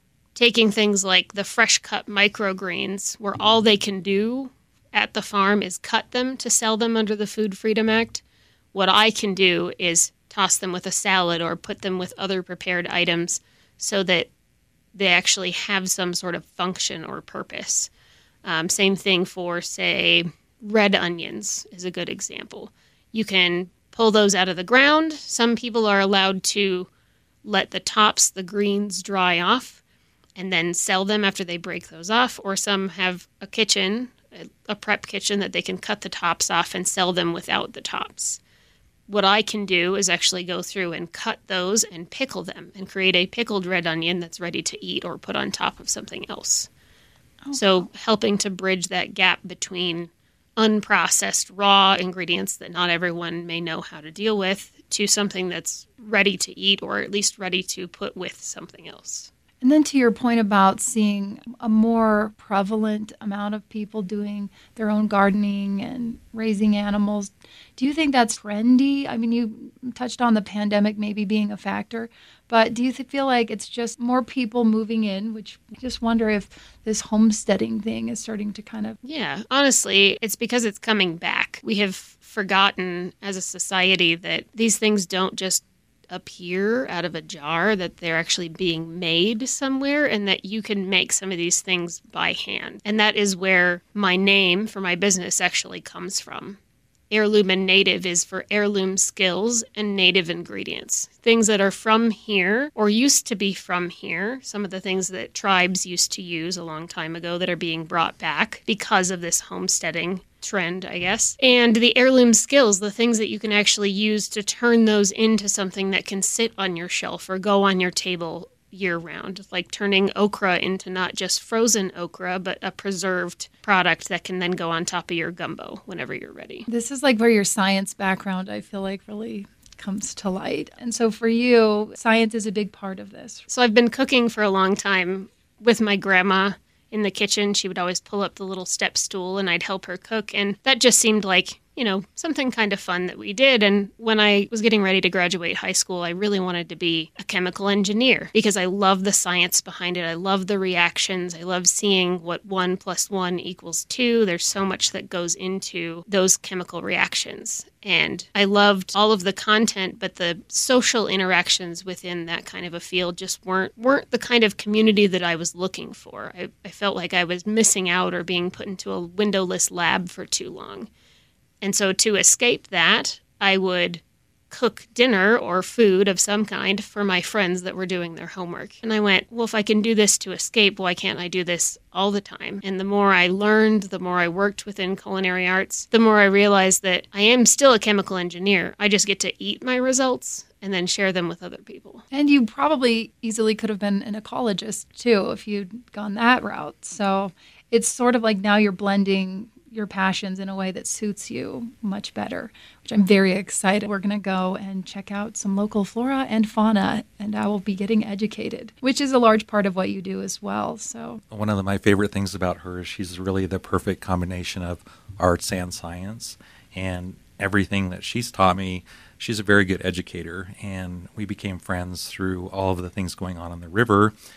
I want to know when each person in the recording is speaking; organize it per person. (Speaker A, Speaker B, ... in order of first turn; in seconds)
Speaker A: 0.3-8.2, 8.7-14.3, 14.9-17.9, 18.4-26.9, 27.4-29.8, 30.4-38.4, 39.1-46.7, 47.5-59.3, 79.0-96.6, 97.1-126.6, 133.5-170.9, 171.6-192.0
Speaker B: 47.4-47.8, 59.6-79.0, 126.7-133.4, 192.1-211.2
Speaker C: 211.3-224.1